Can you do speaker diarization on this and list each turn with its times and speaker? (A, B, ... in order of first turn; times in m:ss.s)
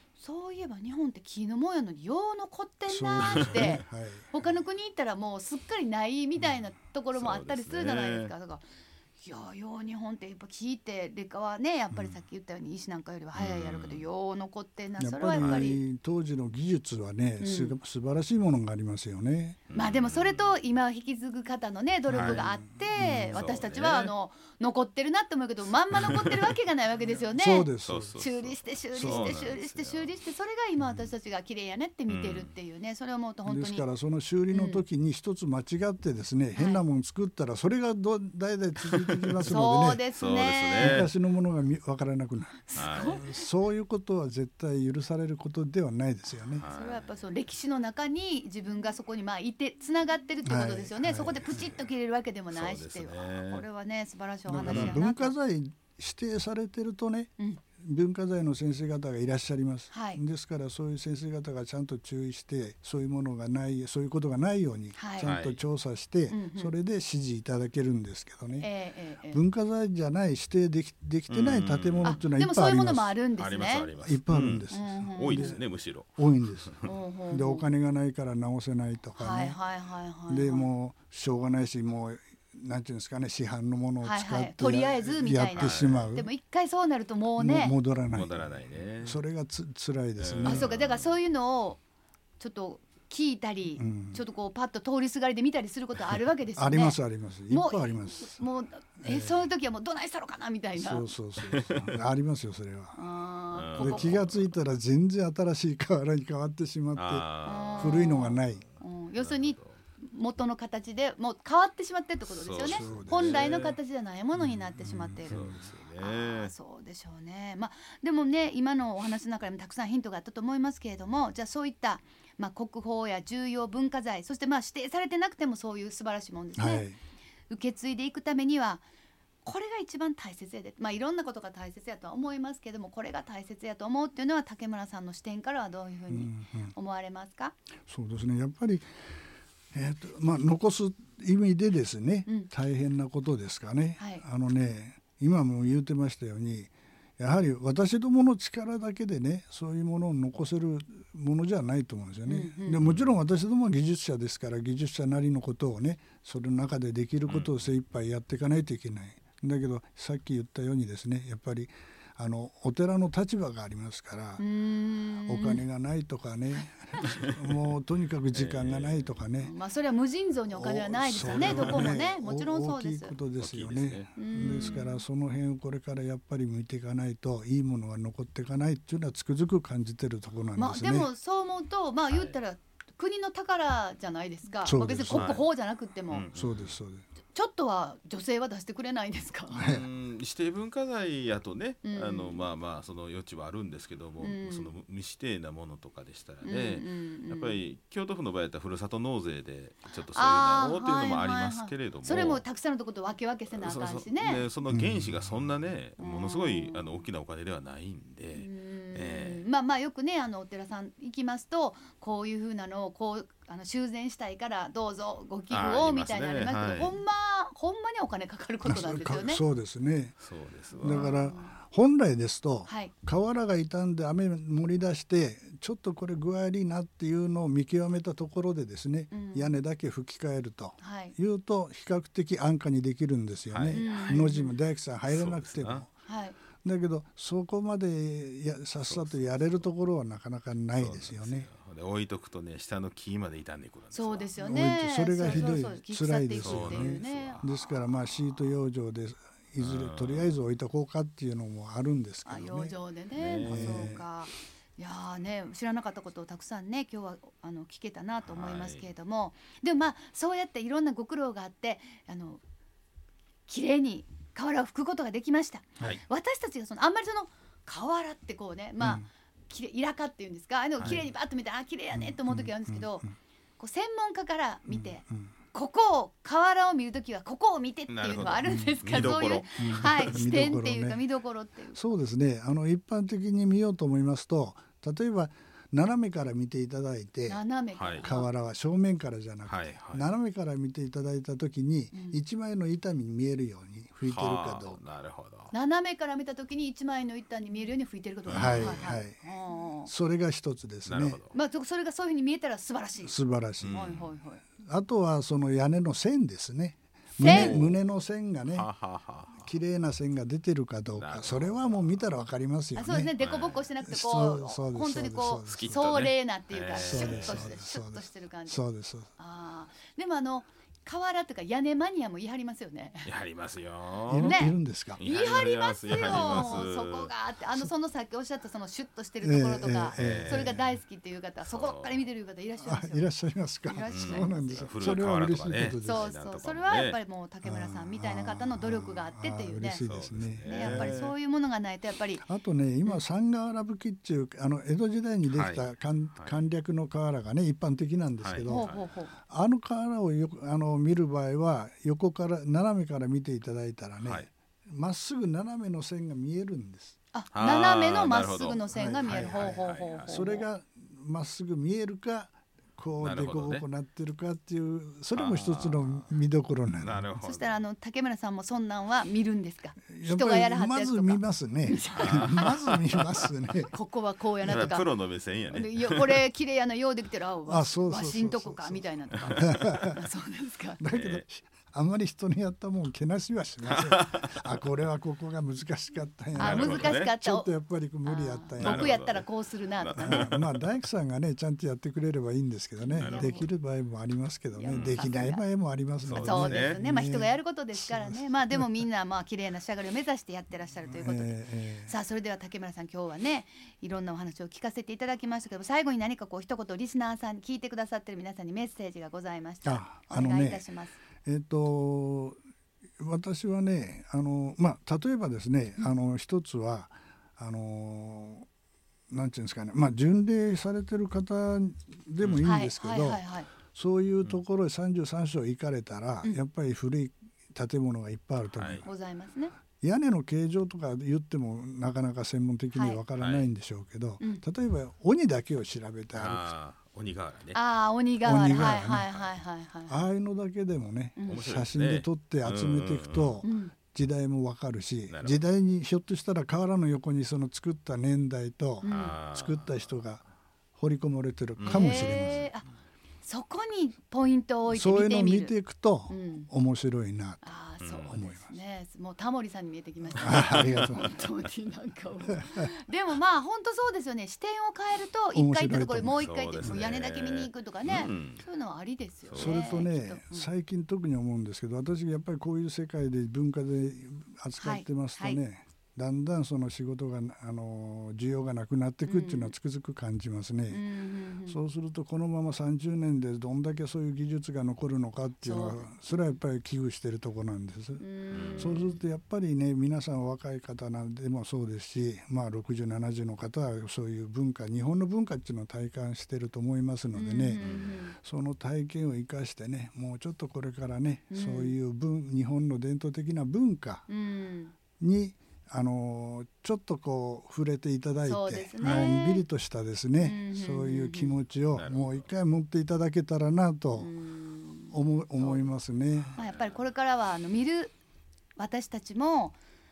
0:00.2-0:08.6 A
0:02.9-0:04.3 B
0:03.2-0:03.7 C
0:07.1-0:08.3 C
0:09.2-0:15.8 A
0:11.9-0:12.2 B
0:13.3-0:14.1 C
0:15.0-0:19.6 B
0:15.4-0:15.7 C
0:17.4-0:17.8 A
0:19.7-0:20.5 C
0:19.7-0:33.9 A
0:22.1-0:23.5 B
0:22.1-0:22.5 C
0:23.3-0:24.1 C
0:25.9-0:26.5 C
0:27.4-0:28.1 B
0:27.8-0:30.1 C
0:28.9-0:29.5 B
0:32.1-0:32.5 C
0:33.5-0:40.1 B
0:34.5-0:34.8 A
0:36.6-0:36.8 A
0:38.9-0:39.6 C
0:39.4-0:41.1 A
0:40.2-0:41.1 C
0:40.8-0:46.7 B
0:42.7-0:43.5 A
0:42.8-0:43.2 C
0:46.6-0:47.0 C
0:46.7-0:55.3 A
0:50.4-0:51.6 B
0:52.5-0:53.7 C
0:54.5-1:08.8 B
0:54.6-0:55.0 C
0:59.9-1:00.2 A
1:05.0-1:05.3 A
1:05.2-1:05.6 C
1:06.3-1:06.8 A
1:08.6-1:09.4 A
1:09.3-1:13.2 B
1:11.3-1:12.3 C
1:12.0-1:13.9 A
1:13.4-1:16.9 C
1:14.0-1:15.6 B
1:14.7-1:15.6 A
1:16.2-1:16.7 B
1:16.8-1:17.7 A
1:17.3-1:19.6 B
1:19.2-1:20.7 A
1:20.3-1:26.3 B
1:24.0-1:27.8 A
1:25.6-1:26.1 C
1:27.4-1:30.7 B
1:28.1-1:29.2 C
1:30.2-1:31.2 C
1:30.4-1:31.8 A
1:32.4-1:37.0 A
1:33.8-1:34.2 B
1:36.6-1:38.4 B
1:37.5-1:41.1 A
1:39.0-1:39.4 B
1:40.8-1:43.0 B
1:41.4-1:42.0 C
1:43.0-1:44.2 A
1:43.5-1:44.5 C
1:43.8-1:48.6 B
1:47.0-1:48.3 C
1:47.4-1:55.4 A
1:49.2-1:49.8 C
1:52.3-1:53.8 C
1:52.6-1:53.5 B
1:54.4-1:55.7 B
1:55.3-1:56.5 C
1:56.0-2:06.9 A
2:06.6-2:07.0 B
2:07.5-2:08.8 A
2:09.4-2:17.5 A
2:16.1-2:16.7 B
2:17.9-2:19.1 B
2:19.7-2:44.4 B
2:24.0-2:24.2 A
2:32.3-2:32.8 A
2:32.8-2:33.1 C
2:37.3-2:37.6 C
2:44.4-2:45.6 A
2:45.3-2:49.5 B
2:46.5-2:47.2 A
2:48.3-2:49.2 C
2:49.4-2:53.2 A
2:50.5-3:01.1 B
2:51.2-2:52.0 C
2:53.4-2:54.8 C
2:54.2-2:55.0 A
3:00.6-3:06.3 A
3:02.1-3:02.4 C
3:04.6-3:05.4 B
3:05.1-3:05.5 C
3:06.1-3:06.8 C
3:06.3-3:07.1 B
3:07.3-3:09.7 A
3:09.6-3:09.9 B
3:09.6-3:22.4 C
3:11.8-3:12.5 A
3:14.2-3:14.7 A
3:16.4-3:17.6 A
3:20.0-3:24.5 A
3:23.5-3:29.4 C
3:24.7-3:25.5 B
3:26.0-3:27.0 A
3:28.3-3:39.4 A
3:35.5-3:37.0 C
3:38.6-3:40.2 B
3:40.2-3:41.1 C
3:40.8-3:55.9 B
3:40.9-3:41.5 A
3:42.7-3:42.9 A
3:49.1-3:49.6 A
3:50.8-3:51.2 A
3:53.5-3:54.3 C
3:53.7-3:54.6 A
3:55.1-3:55.8 C
3:56.1-3:56.4 A
3:56.6-4:01.5 B
3:58.8-3:59.7 C
4:00.8-4:04.3 C
4:03.9-4:07.5 A
4:04.4-4:12.8 B
4:05.2-4:05.6 C
4:06.4-4:07.5 C
4:09.6-4:10.4 C
4:12.2-4:22.4 A
4:13.2-4:14.0 C
4:13.4-4:14.0 B
4:18.2-4:18.9 C
4:23.5-4:33.1 A
4:28.8-4:29.1 B
4:30.8-4:31.1 C
4:31.9-4:33.1 B
4:33.6-4:41.8 A
4:34.7-4:35.3 B
4:37.9-4:40.2 C
4:38.4-4:41.0 B
4:41.7-4:47.4 B
4:47.3-4:48.3 A
4:47.8-4:48.1 C
4:48.0-4:54.8 B
4:49.4-4:50.1 C
4:51.9-4:52.2 A
4:54.0-4:55.5 C
4:55.5-4:59.9 A
4:58.3-4:58.9 C
4:58.3-4:59.3 B
4:59.8-5:01.2 B
5:00.8-5:01.3 C
5:01.3-5:03.2 A
5:03.0-5:04.0 B
5:03.6-5:04.1 C
5:03.7-5:04.4 A
5:04.6-5:08.7 B
5:07.2-5:07.6 A
5:07.2-5:07.8 C
5:08.5-5:09.5 C
5:09.4-5:13.1 B
5:10.9-5:12.0 C
5:12.8-5:18.6 A
5:13.2-5:13.7 C
5:13.8-5:15.8 B
5:15.5-5:17.6 C
5:16.8-5:19.1 B
5:19.2-5:23.1 A
5:23.0-5:27.1 C
5:24.1-5:25.0 B
5:24.1-5:33.1 A
5:26.0-5:26.6 B
5:29.2-5:30.6 B
5:30.0-5:30.6 C
5:31.4-5:32.0 C
5:32.6-5:36.1 B
5:33.6-5:34.8 A
5:33.9-5:37.0 C
5:35.8-5:39.8 A
5:37.4-5:41.1 B
5:39.8-5:41.1 C
5:40.4-5:42.2 A
5:42.2-5:48.7 B
5:45.3-5:46.5 C
5:48.2-5:48.9 C
5:48.5-5:49.1 A
5:49.2-5:57.0 B
5:54.0-5:54.3 C
5:57.1-6:00.5 A
5:57.3-6:00.3 C
5:58.7-6:07.0 B
6:03.0-6:03.6 C
6:05.1-6:06.1 C
6:06.8-6:07.6 C
6:07.2-6:12.4 A
6:09.9-6:13.7 B
6:12.0-6:13.0 C
6:13.7-6:14.9 A
6:14.4-6:16.3 C
6:15.5-6:20.8 A
6:17.5-6:20.0 B
6:19.2-6:19.6 C
6:20.8-6:29.0 B
6:20.9-6:21.2 C
6:23.7-6:24.4 C
6:26.3-6:27.5 A
6:26.4-6:27.1 C
6:28.0-6:30.4 A
6:28.6-6:29.3 C
6:29.8-6:30.5 C
6:30.0-6:38.8 B
6:32.8-6:33.5 A
6:32.9-6:33.5 C
6:34.5-6:35.4 A
6:34.7-6:35.0 C
6:36.0-6:36.8 C
6:36.2-6:51.0 A
6:40.9-6:41.9 B
6:49.6-6:50.7 B
6:51.2-6:52.4 B
6:53.0-6:58.5 B
6:59.1-7:08.9 B
7:02.2-7:02.5 C
7:02.4-7:03.5 A
7:08.5-7:08.9 C
7:08.8-7:09.5 A
7:09.8-7:16.5 B
7:12.7-7:13.0 A
7:13.2-7:13.5 C
7:16.1-7:17.6 C
7:17.5-7:20.1 A
7:18.2-7:19.1 B
7:18.4-7:19.3 C
7:19.9-7:30.2 B
7:21.2-7:21.5 A
7:21.3-7:23.4 C
7:23.4-7:23.7 A
7:25.1-7:25.4 C
7:28.8-7:29.2 A
7:28.8-7:29.9 C
7:30.8-7:32.4 B
7:31.6-7:32.6 C
7:31.6-7:32.7 A
7:33.2-7:35.6 A
7:34.7-7:37.5 B
7:36.1-7:36.5 A
7:37.4-7:50.5 A
7:37.8-7:38.2 C
7:38.1-7:38.6 B
7:40.2-7:41.2 B
7:40.2-7:41.0 C
7:45.3-7:46.9 B
7:46.0-7:48.4 C
7:49.3-7:49.7 C
7:49.4-8:00.8 B
7:54.6-7:55.4 A
7:59.1-7:59.6 A
8:00.7-8:01.6 A
8:01.5-8:08.0 B
8:05.4-8:05.9 A
8:08.0-8:09.0 A
8:08.3-8:08.8 C
8:08.6-8:24.1 B
8:17.1-8:18.2 A
8:17.6-8:17.9 C
8:21.3-8:21.8 A
8:24.1-8:24.8 A
8:25.0-8:34.1 B
8:28.2-8:29.4 A
8:28.8-8:29.1 C
8:30.2-8:31.4 A
8:31.7-8:32.3 C
8:34.0-8:35.7 A
8:34.9-8:36.4 B
8:36.2-8:36.8 C
8:36.4-8:37.9 A
8:38.6-8:39.6 A